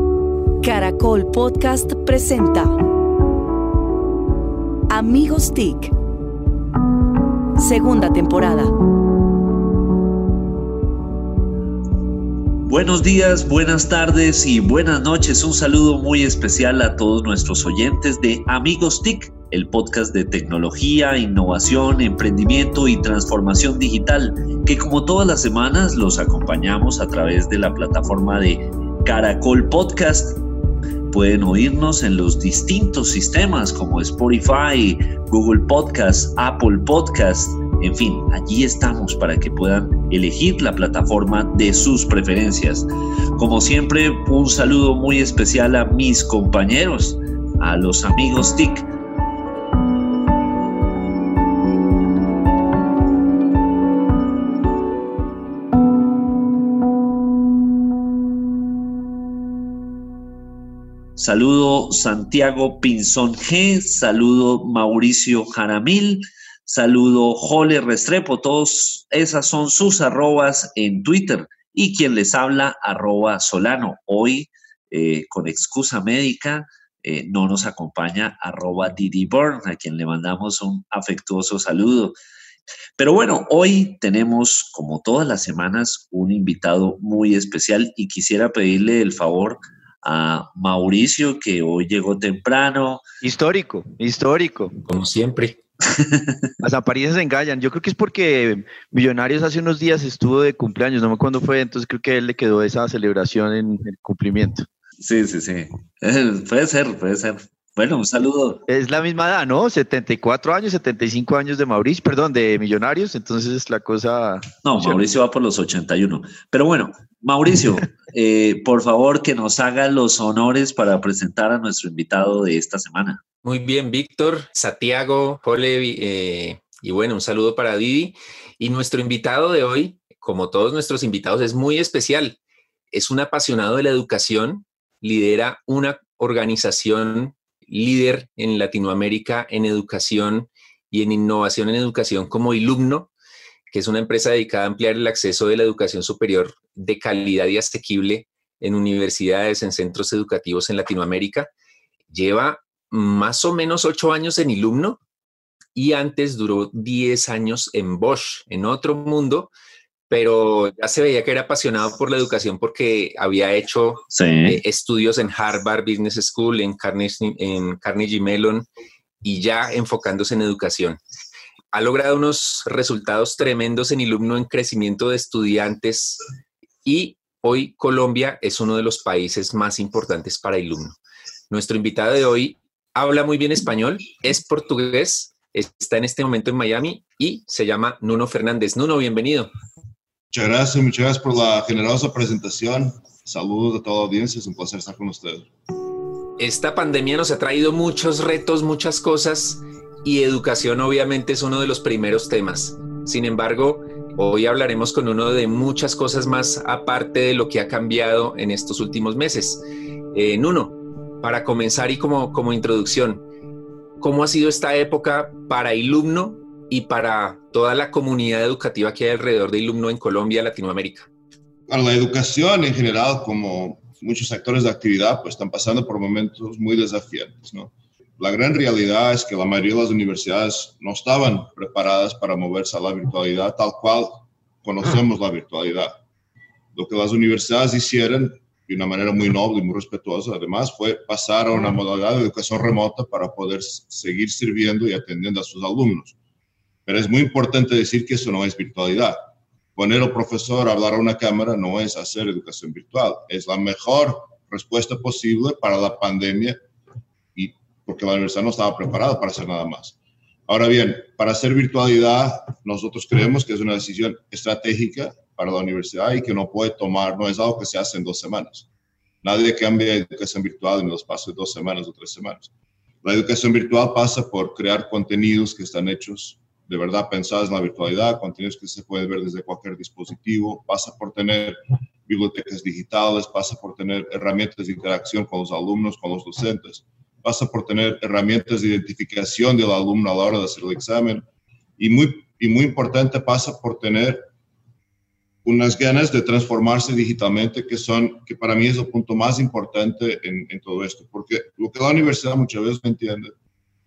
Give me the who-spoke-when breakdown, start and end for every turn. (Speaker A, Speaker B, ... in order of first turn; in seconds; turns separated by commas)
Speaker A: 0.6-2.8, Speaker A: 4.9-5.9, Speaker A: 7.6-8.7, Speaker B: 12.6-30.4, Speaker B: 31.1-48.9, Speaker B: 61.2-82.2, Speaker B: 83.0-93.0, Speaker C: 93.2-94.7, Speaker D: 94.9-95.6, Speaker B: 95.8-96.5, Speaker C: 96.6-104.7, Speaker B: 105.0-108.6, Speaker C: 108.7-115.0, Speaker B: 114.6-123.2, Speaker D: 123.4-132.4, Speaker D: 132.9-143.1, Speaker D: 143.7-151.5, Speaker D: 152.1-155.0, Speaker D: 155.7-159.5, Speaker D: 160.1-168.7, Speaker B: 164.1-164.6, Speaker D: 169.2-171.0, Speaker D: 171.7-176.2, Speaker D: 176.8-180.9, Speaker D: 181.5-189.5, Speaker E: 190.3-195.5, Speaker D: 196.4-213.2, Speaker D: 214.0-221.1, Speaker E: 221.7-236.0, Speaker E: 236.7-246.1, Speaker E: 246.8-249.2, Speaker E: 249.8-256.6, Speaker E: 257.3-259.9, Speaker E: 260.5-268.7, Speaker E: 269.2-272.5, Speaker E: 273.0-291.2, Speaker E: 291.8-294.2, Speaker E: 295.4-303.3